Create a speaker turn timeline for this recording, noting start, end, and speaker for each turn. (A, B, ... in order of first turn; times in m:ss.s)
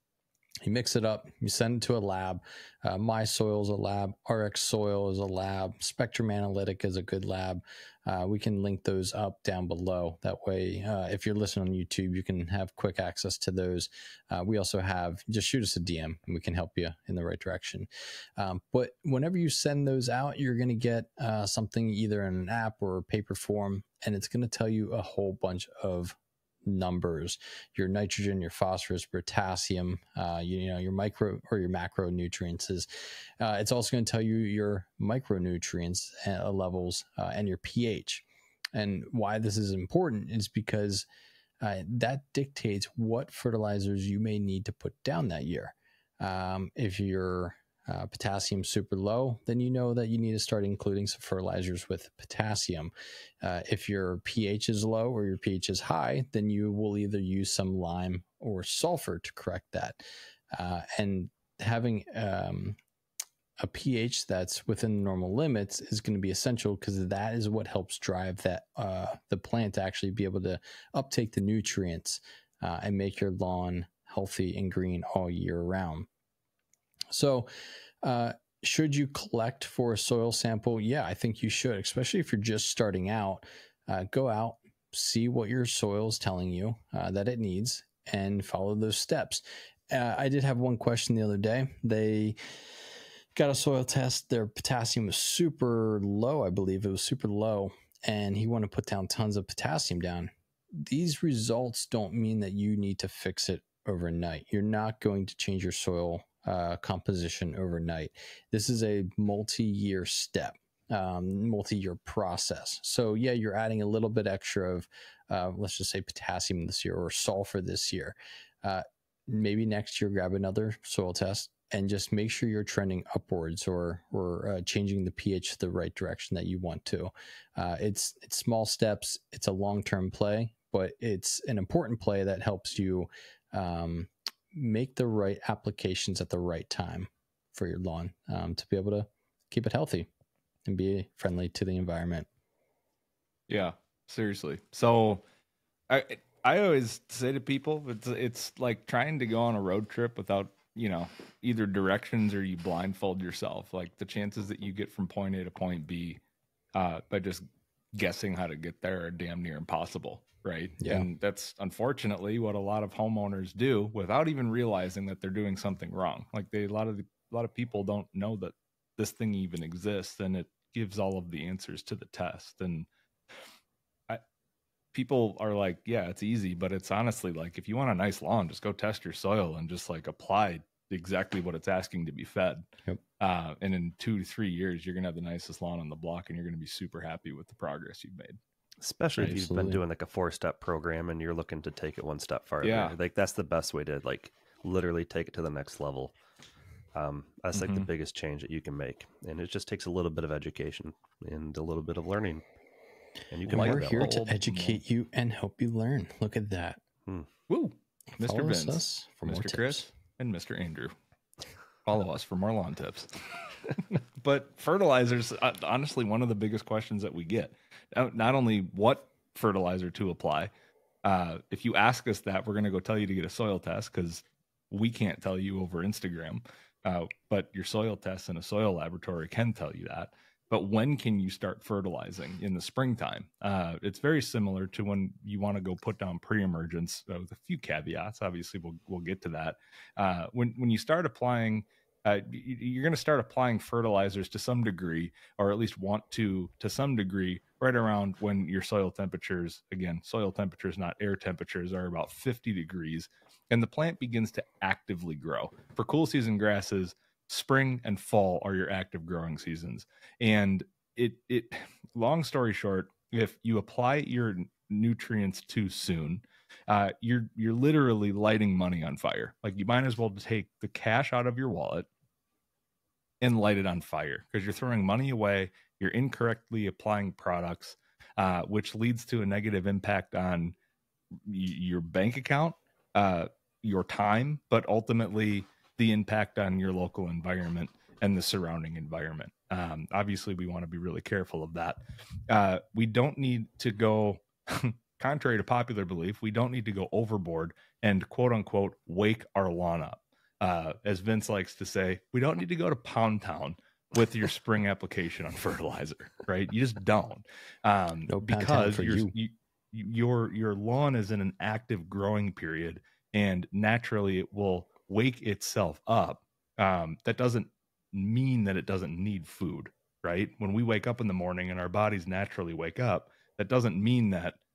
0:00.6-0:32.9 A
0:33.4-0:41.0 A
0:41.6-1:00.0 A
1:00.5-1:02.8 A
1:03.6-1:16.1 A
1:17.1-1:17.5 A
1:18.0-1:32.4 A
1:33.3-2:20.1 A
2:20.6-2:22.3 A
2:23.5-2:25.2 B
2:25.9-2:36.2 B
2:36.7-2:52.9 B
2:40.8-2:41.1 A
2:54.9-3:02.7 B
3:03.2-3:08.4 B
3:08.8-3:16.1 C
3:09.2-3:09.8 A
3:12.6-3:12.9 B
3:16.9-3:22.4 C
3:17.5-3:17.9 B
3:23.3-3:24.2 C
3:23.4-3:26.8 A
3:23.5-3:24.8 B
3:27.5-3:30.9 B
3:28.2-3:29.8 A
3:31.8-3:33.1 B
3:33.7-3:40.5 B
3:41.0-4:31.9 B
4:33.2-4:40.5 B
4:41.2-5:24.4 B
5:08.1-5:09.1 A